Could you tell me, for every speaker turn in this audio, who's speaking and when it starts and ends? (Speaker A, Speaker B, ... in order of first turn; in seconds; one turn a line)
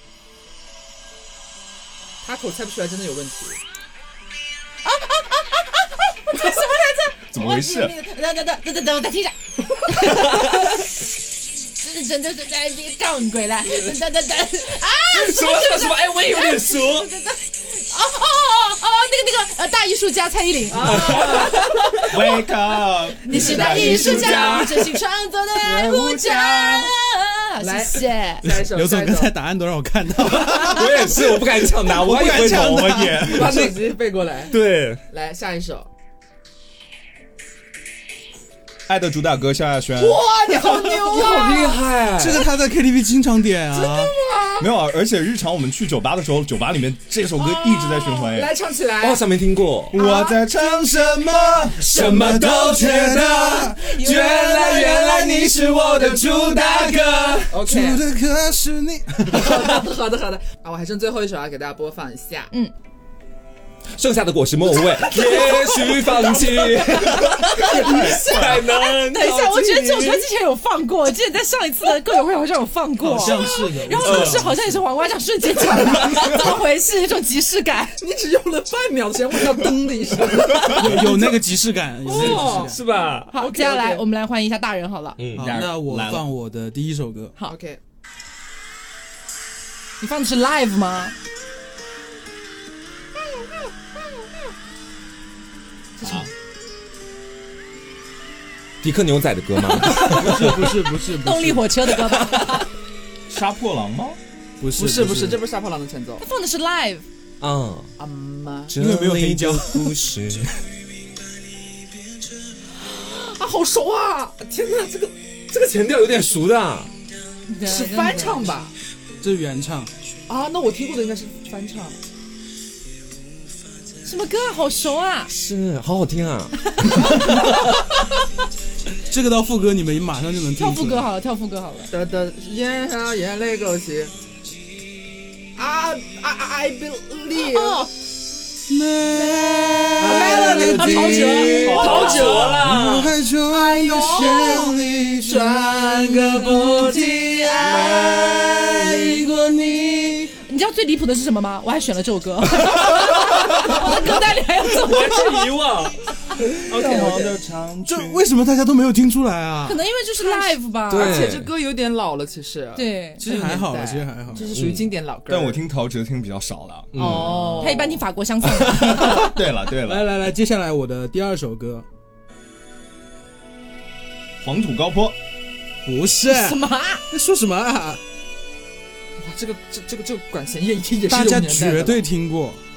Speaker A: 2.2-3.6
Speaker B: 4.8-10.9
Speaker C: 7.3-7.9
Speaker D: 10.0-10.7
Speaker B: 11.7-22.1
Speaker D: 15.1-17.1
Speaker A: 20.7-21.6
Speaker D: 20.8-21.6
Speaker C: 22.1-24.8
Speaker B: 23.2-28.5
Speaker A: 23.5-24.7
Speaker E: 23.7-24.5
Speaker A: 25.6-26.9
Speaker A: 27.6-29.3
Speaker E: 28.4-33.6
Speaker D: 30.5-33.9
Speaker C: 32.1-33.7
Speaker A: 33.2-34.5
Speaker D: 34.5-35.0
Speaker A: 35.1-35.9
Speaker C: 38.9-40.2
Speaker A: 40.0-41.8
Speaker D: 40.6-42.4
Speaker E: 42.1-44.1
Speaker A: 43.7-44.7
Speaker C: 44.6-48.5
Speaker A: 47.4-49.2
Speaker D: 49.0-50.0
Speaker C: 49.9-51.9
Speaker E: 49.9-59.8
Speaker B: 50.0-50.4
Speaker D: 51.8-57.5
Speaker B: 53.9-54.9
Speaker A: 57.5-58.0
Speaker A: 59.3-62.5
Speaker D: 64.0-70.2
Speaker C: 67.2-68.7
Speaker B: 67.6-78.0
Speaker E: 73.0-74.8
Speaker D: 73.9-74.5
Speaker A: 78.0-81.4
Speaker C: 80.5-80.8
Speaker E: 80.6-82.8
Speaker A: 82.0-84.0
Speaker D: 82.1-83.3
Speaker B: 83.3-85.2
Speaker D: 85.2-85.6
Speaker C: 85.3-86.2
Speaker E: 85.3-87.3
Speaker A: 87.4-87.8
Speaker B: 90.0-91.1
Speaker A: 96.0-96.3
Speaker C: 96.0-96.3
Speaker D: 98.8-100.8
Speaker E: 99.8-102.5
Speaker B: 101.2-102.7
Speaker C: 103.3-104.2
Speaker E: 104.6-105.4
Speaker A: 104.8-106.2
Speaker B: 106.2-107.0
Speaker D: 107.4-107.9
Speaker A: 108.0-108.7
Speaker D: 108.7-110.5
Speaker E: 108.8-110.0
Speaker A: 112.8-114.4
Speaker D: 114.4-116.9
Speaker B: 117.5-118.5
Speaker A: 117.7-118.7
Speaker E: 119.2-119.9
Speaker A: 120.3-122.0
Speaker B: 124.0-125.3
Speaker D: 125.3-127.6
Speaker E: 129.1-131.1
Speaker B: 130.6-131.9
Speaker A: 131.9-134.1
Speaker A: 135.6-137.9
Speaker B: 137.4-137.9
Speaker E: 138.7-147.0
Speaker B: 139.1-142.2
Speaker A: 140.0-142.6
Speaker C: 140.4-142.4
Speaker D: 141.2-143.2
Speaker A: 143.5-148.9
Speaker B: 143.8-144.7
Speaker B: 147.1-147.9
Speaker E: 147.6-150.3
Speaker B: 150.3-155.5
Speaker D: 152.7-156.7
Speaker C: 156.7-158.2
Speaker A: 156.7-157.4
Speaker E: 157.8-159.8
Speaker B: 159.7-161.3
Speaker A: 160.2-165.6
Speaker D: 160.9-161.5
Speaker B: 162.8-163.2
Speaker E: 163.2-164.5
Speaker D: 164.5-164.9
Speaker C: 165.3-167.3
Speaker D: 166.9-167.5
Speaker A: 166.9-168.0
Speaker E: 167.3-167.7
Speaker B: 167.6-169.3
Speaker C: 168.7-170.1
Speaker E: 168.8-171.8
Speaker C: 174.4-175.2
Speaker E: 175.8-178.0
Speaker B: 176.3-177.0
Speaker A: 179.2-182.0
Speaker E: 181.1-182.6